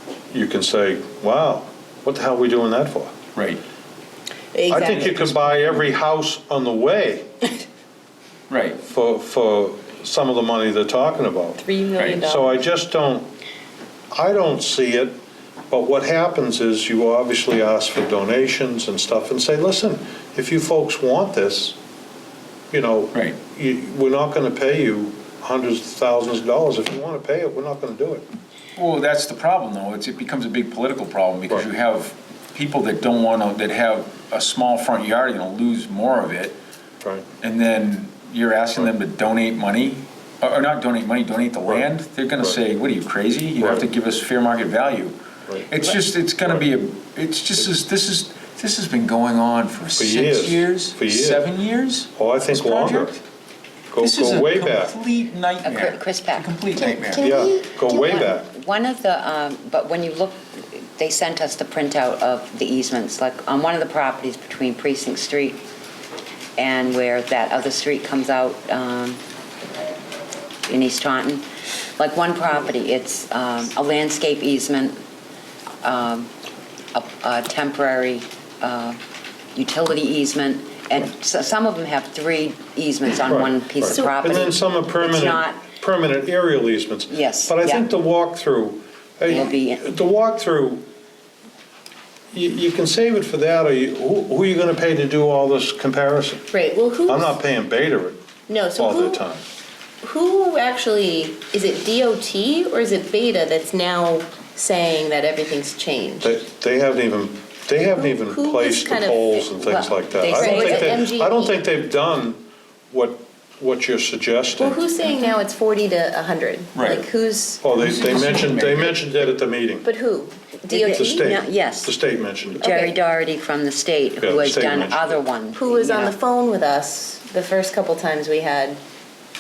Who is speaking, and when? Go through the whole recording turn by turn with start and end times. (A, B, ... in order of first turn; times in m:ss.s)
0:00.3-0:03.1 A
0:03.4-0:03.6 B
0:04.5-0:05.4 C
0:04.7-0:07.3 A
0:04.9-0:05.7 B
0:08.5-0:08.8 B
0:08.8-0:11.6 A
0:11.6-0:12.6 C
0:12.2-0:13.3 A
0:14.1-0:15.2 A
0:15.7-0:21.8 A
0:22.7-0:28.2 A
0:23.1-0:23.4 B
0:28.8-0:36.6 B
0:37.4-0:45.2 B
0:43.6-0:43.9 A
0:45.7-0:53.2 B
0:50.0-0:51.5 A
0:52.2-0:53.1 A
0:53.9-0:55.0 A
0:54.0-0:57.2 B
0:55.6-1:05.6 D
0:57.2-0:58.5 A
1:06.6-1:09.2 D
1:10.7-1:11.4 D
1:12.0-1:15.0 D
1:15.8-1:16.3 D
1:16.9-1:19.0 D
1:19.5-1:25.6 D
1:23.3-1:30.9 A
1:27.1-1:27.9 D
1:29.3-1:29.9 D
1:32.3-1:36.5 A
1:36.5-1:37.4 C
1:37.1-1:38.2 A
1:38.5-1:39.2 C
1:38.8-1:39.4 A
1:40.0-1:46.4 C
1:46.2-1:54.8 A
1:48.0-1:49.5 C
1:49.6-1:51.1 D
1:50.3-1:51.5 C
1:54.6-1:57.6 C
1:56.8-1:57.0 B
1:57.6-1:59.9 A
1:57.7-1:59.0 B
1:59.8-2:01.4 C
2:00.7-2:01.9 D
2:00.9-2:02.7 A
2:02.6-2:06.2 D
2:02.6-2:02.9 C
2:04.2-2:05.2 A
2:05.6-2:08.8 C